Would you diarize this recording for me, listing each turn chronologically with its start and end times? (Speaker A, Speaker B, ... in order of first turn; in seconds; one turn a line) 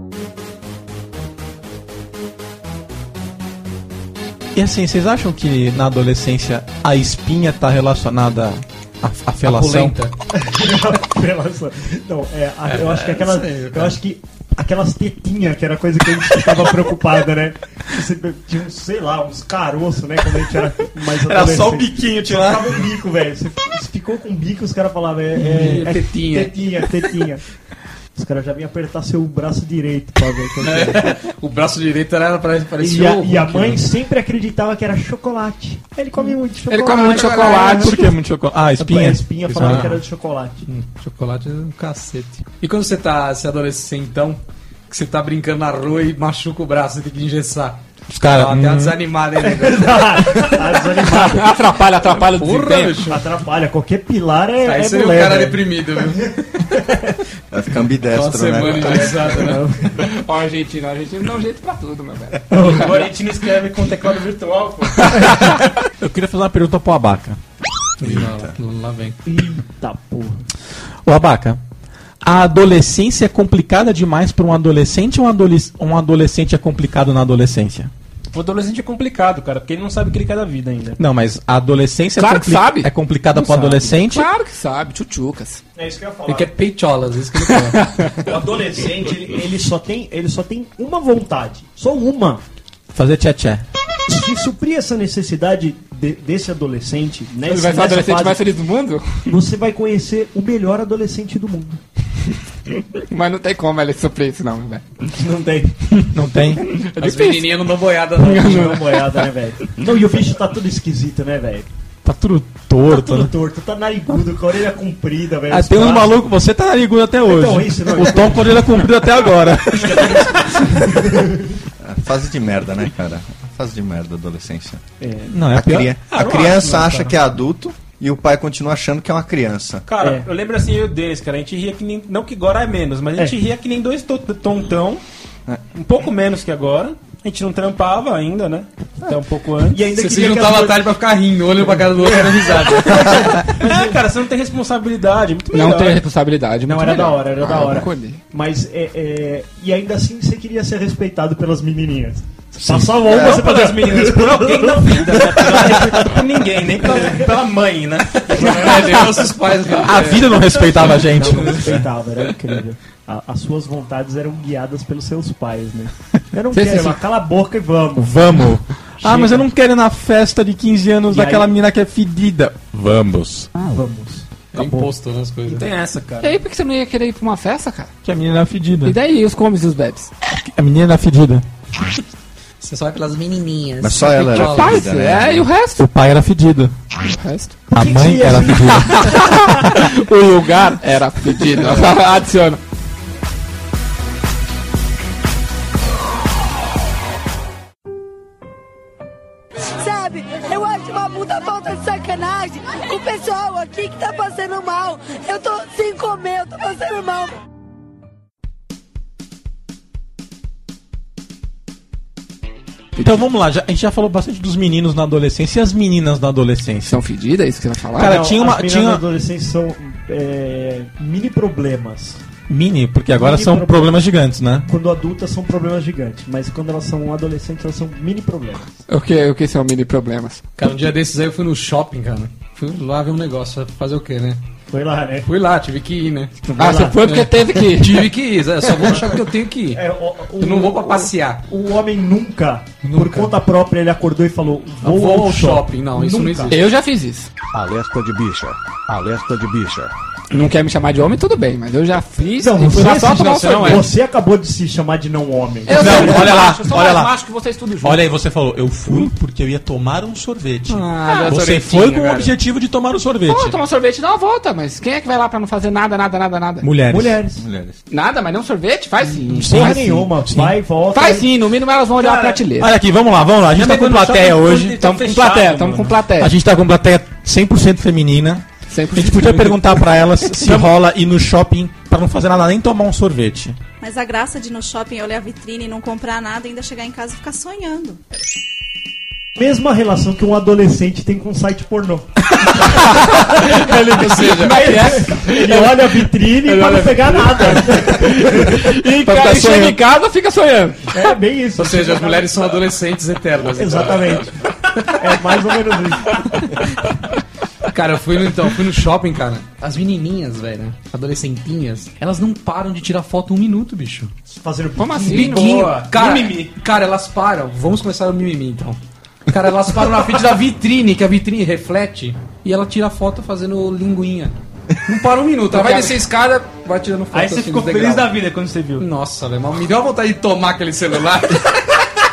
Speaker A: 4.5-10.0
Speaker B: 9.4-10.1
Speaker C: 10.3-27.4
Speaker B: 12.6-14.0
Speaker A: 21.2-22.9
Speaker B: 25.3-26.6
Speaker C: 28.1-31.2
Speaker B: 30.6-33.9
Speaker C: 32.8-38.1
Speaker D: 36.7-38.0
Speaker A: 37.3-39.9
Speaker C: 38.8-40.6
Speaker B: 39.5-40.0
Speaker B: 40.7-50.6
Speaker A: 48.1-49.0
Speaker C: 49.4-51.6
Speaker D: 51.0-53.0
Speaker B: 52.1-53.2
Speaker C: 53.0-57.1
Speaker B: 54.6-56.2
Speaker E: 57.5-59.1
Speaker B: 58.1-59.6
Speaker C: 58.7-60.0
Speaker D: 60.2-62.9
Speaker C: 62.5-63.1
Speaker F: 62.5-65.2
Speaker D: 65.1-65.5
Speaker A: 66.0-67.4
Speaker B: 68.0-69.2
Speaker E: 68.0-68.5
Speaker C: 69.2-70.4
Speaker A: 71.0-71.6
Speaker A: 72.2-77.9
Speaker F: 78.3-81.0
Speaker A: 81.0-84.3
Speaker D: 82.2-85.6
Speaker C: 85.8-86.5
Speaker B: 86.3-88.0
Speaker D: 87.7-88.2
Speaker C: 88.2-92.4
Speaker A: 92.9-93.6
Speaker C: 94.1-98.4
Speaker D: 97.5-99.3
Speaker C: 99.2-101.8
Speaker D: 103.1-104.8
Speaker C: 105.1-106.0
Speaker A: 106.1-106.7
Speaker D: 106.7-107.5
Speaker B: 107.0-108.8
Speaker D: 108.2-109.0
Speaker C: 108.2-111.7
Speaker A: 112.0-113.3
Speaker C: 112.9-116.2
Speaker A: 115.5-120.8
Speaker C: 117.2-118.9
Speaker C: 119.7-121.6
Speaker E: 121.8-124.8
Speaker C: 125.0-125.5
Speaker A: 125.3-125.9
Speaker E: 125.5-129.9
Speaker F: 126.0-127.2
Speaker F: 129.8-135.0
Speaker C: 130.0-130.3
Speaker F: 135.7-139.9
Speaker C: 139.7-140.8
Speaker B: 139.9-143.2
Speaker C: 142.1-144.0
Speaker F: 142.2-146.0
Speaker D: 145.5-148.2
Speaker C: 146.7-157.2
Speaker F: 152.7-158.9
Speaker E: 153.1-153.4
Speaker B: 158.3-160.6
Speaker C: 158.3-159.1
Speaker A: 159.7-161.8
Speaker C: 160.8-168.2
Speaker D: 166.5-167.0
Speaker A: 168.0-173.5
Speaker C: 169.0-169.4
Speaker C: 171.1-171.5
Speaker C: 173.6-174.9
Speaker B: 174.5-175.7
Speaker F: 175.4-176.4
Speaker D: 176.2-177.9
Speaker A: 178.0-179.0
Speaker D: 178.8-180.1
Speaker A: 180.3-181.4
Speaker B: 182.6-184.9
Speaker E: 183.8-185.5
Speaker D: 184.2-185.8
Speaker A: 185.8-186.7
Speaker D: 187.0-187.5
Speaker A: 187.7-189.7
Speaker C: 187.7-189.2
Speaker D: 188.8-192.6
Speaker G: 199.8-207.4
Speaker A: 213.0-216.9
Speaker D: 216.9-218.2
Speaker A: 218.0-219.0
Speaker C: 218.0-222.2
Speaker A: 222.5-224.7
Speaker C: 223.1-224.0
Speaker C: 224.7-228.7
Speaker D: 228.9-230.4
Speaker B: 230.6-234.4
Speaker C: 234.7-235.3
Speaker B: 235.2-236.4
Speaker C: 236.5-237.2
Speaker D: 236.6-238.1
Speaker B: 237.1-239.8
Speaker C: 238.8-239.2
Speaker C: 239.7-246.6
Speaker B: 240.4-241.4
Speaker B: 242.8-243.3
Speaker B: 244.8-246.6
Speaker D: 246.5-247.3
Speaker H: 247.5-249.9
Speaker D: 250.3-253.8
Speaker C: 252.4-256.3
Speaker B: 252.8-253.9
Speaker D: 255.7-258.0
Speaker A: 255.7-257.1
Speaker A: 257.8-263.6
Speaker D: 260.7-261.7
Speaker B: 260.9-262.3
Speaker D: 263.3-266.7
Speaker A: 266.6-267.2
Speaker C: 266.9-267.4
Speaker E: 267.4-267.8
Speaker D: 267.9-269.9
Speaker A: 269.3-270.6
Speaker C: 269.4-271.3
Speaker D: 270.9-272.7
Speaker F: 272.0-272.4
Speaker A: 272.6-274.8
Speaker F: 273.5-276.0
Speaker D: 274.8-276.3
Speaker A: 276.2-283.6
Speaker D: 278.7-279.8
Speaker I: 283.8-288.0
Speaker C: 289.4-298.7
Speaker B: 293.4-295.1
Speaker D: 294.2-300.9
Speaker A: 298.9-299.8
Speaker C: 300.9-302.6
Speaker B: 301.6-304.3
Speaker C: 303.5-304.4
Speaker C: 304.9-306.6
Speaker B: 307.7-314.1
Speaker C: 314.3-315.7
Speaker D: 314.8-315.7
Speaker F: 315.1-316.5
Speaker B: 315.1-328.2
Speaker D: 325.5-326.0
Speaker F: 327.1-328.9
Speaker B: 328.8-331.6